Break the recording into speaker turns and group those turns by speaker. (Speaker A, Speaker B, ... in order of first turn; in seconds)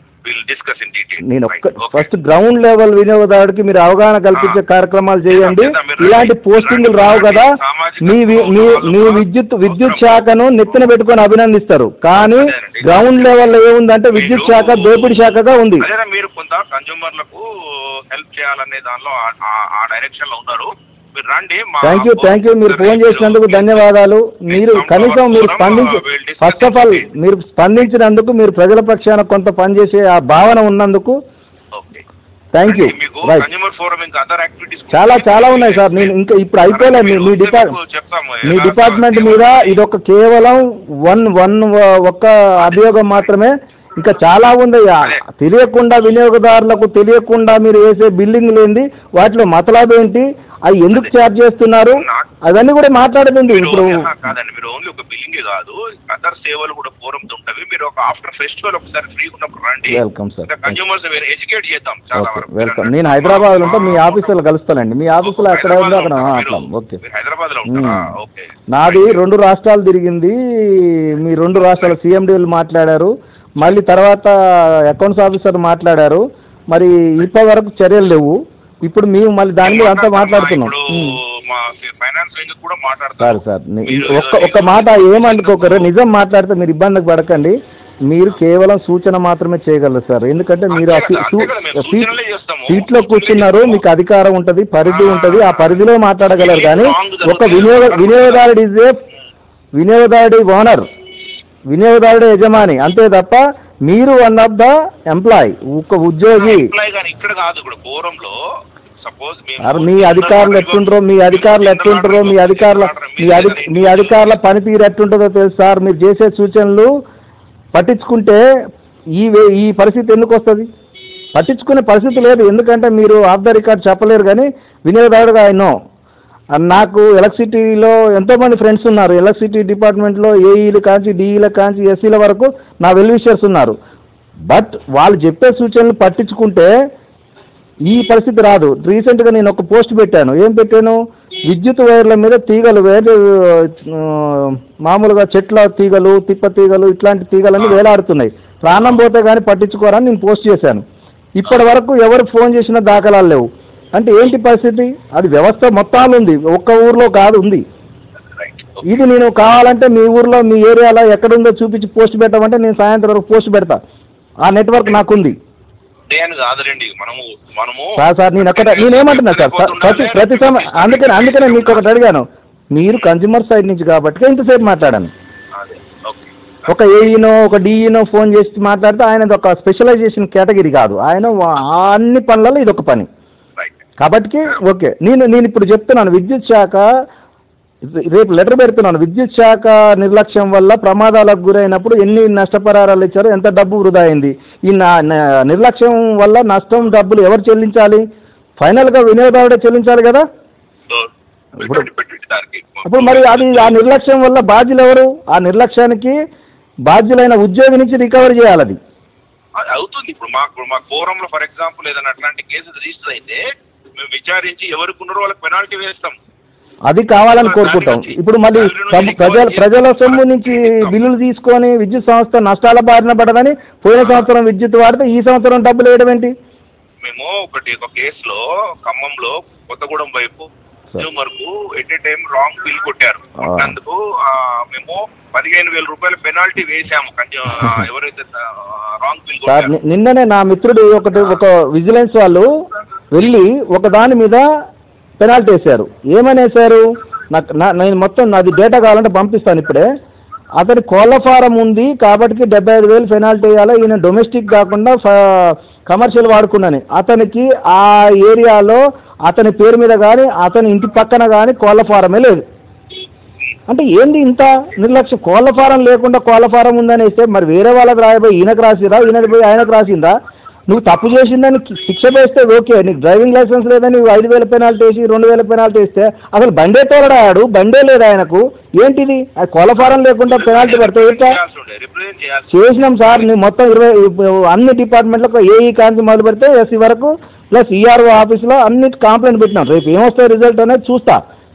Speaker A: 0.2-2.1, 5.3-10.2, 12.1-13.3, 14.1-15.2, 15.8-23.9, 24.5-27.1, 31.7-32.0, 32.6-39.8, 42.6-43.2, 51.8-52.3, 53.5-64.4, 65.2-69.2, 71.6-72.0, 79.6-85.9, 90.7-93.8, 94.8-98.5, 106.3-108.3, 109.0-114.3, 147.6-147.8, 158.4-158.9, 166.1-171.9, 175.5-176.7, 200.9-203.9, 209.6-213.4, 214.0-216.2, 217.3-220.9, 224.0-224.3, 227.0-239.7, 280.2-283.3
Speaker B: 1.2-15.9, 21.8-31.2, 32.5-33.5, 34.9-37.7, 38.4-54.1, 59.9-60.8, 62.1-67.0, 67.7-68.0, 68.7-81.2, 83.2-87.6, 88.1-92.1, 92.7-98.9, 99.8-100.8, 101.7-106.7, 109.6-116.9, 117.7-118.4, 119.2-120.7, 121.3-125.7, 126.6-133.7, 134.5-136.7, 137.9-140.9, 141.5-150.8, 151.4-157.6, 158.8-163.8, 164.4-165.3, 168.0-175.1, 176.7-183.1, 184.0-186.8, 187.9-198.0, 198.6-200.2, 201.6-201.9, 202.8-206.2, 206.9-208.8, 216.9-226.3, 233.4-233.8, 239.5-242.5, 243.1-244.4, 245.2-249.9, 250.6-262.4, 263.7-270.1, 270.7-281.4, 282.5-291.2